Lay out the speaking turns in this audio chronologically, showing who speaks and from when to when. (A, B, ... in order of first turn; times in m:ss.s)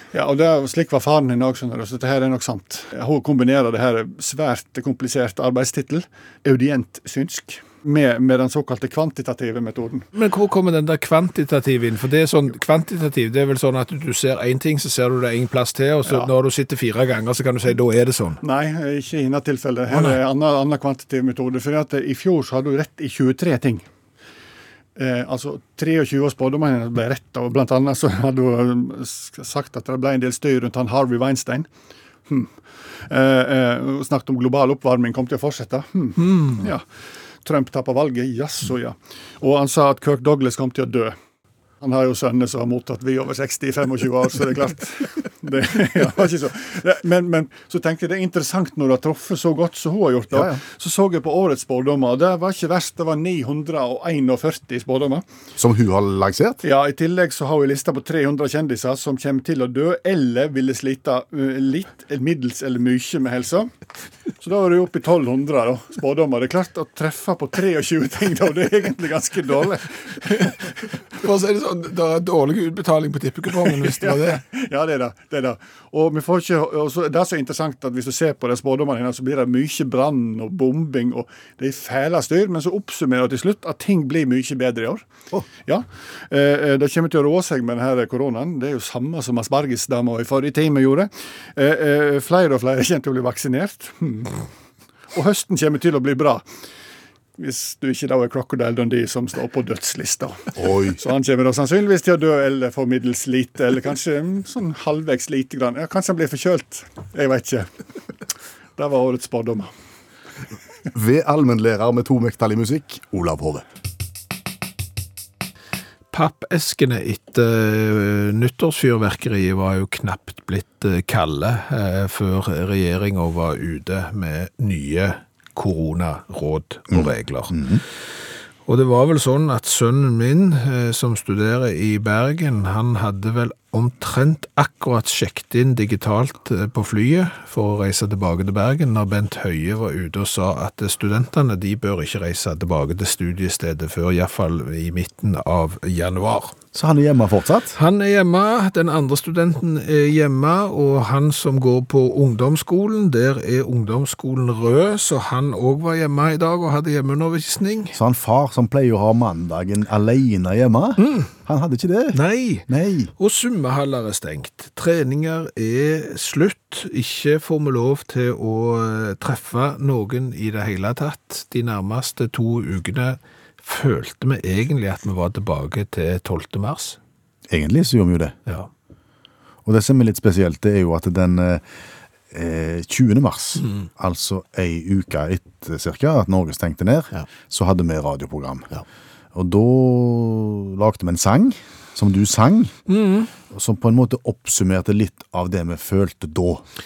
0:00.1-0:10.1 A
0:10.1-0:18.4 B
0:18.4-0:23.8 A
0:19.9-0:20.2 B
0:25.0-0:31.7 A
0:32.3-0:32.5 A
0:33.0-0:36.8 A
0:36.2-0:36.7 B
0:37.4-0:41.1 A
0:41.8-0:55.2 A
0:50.3-0:50.6 C
0:55.6-0:56.6 C
0:56.6-1:03.7 A
1:04.4-1:10.5 A
1:10.2-1:10.5 B
1:11.1-1:14.4 B
1:13.6-1:25.0 A
1:25.6-1:34.4 A
1:35.1-1:36.4 A
1:37.4-1:47.7 A
1:40.6-1:41.0 C
1:48.8-1:49.7 A
1:50.9-1:53.6 C
1:56.1-2:07.6 B
2:06.9-2:07.8 C
2:08.6-2:26.6 B
2:26.7-2:27.8 C
2:27.7-2:38.0 B
2:37.9-2:43.1 C
2:41.0-2:41.3 B
2:42.1-2:42.7 B
2:43.2-2:57.0 B
2:57.5-2:58.4 C
2:59.6-3:01.6 C
3:02.3-3:08.8 C
3:03.6-3:03.9 B
3:09.3-3:12.7 C
3:12.9-3:13.3 B
3:13.5-3:16.6 C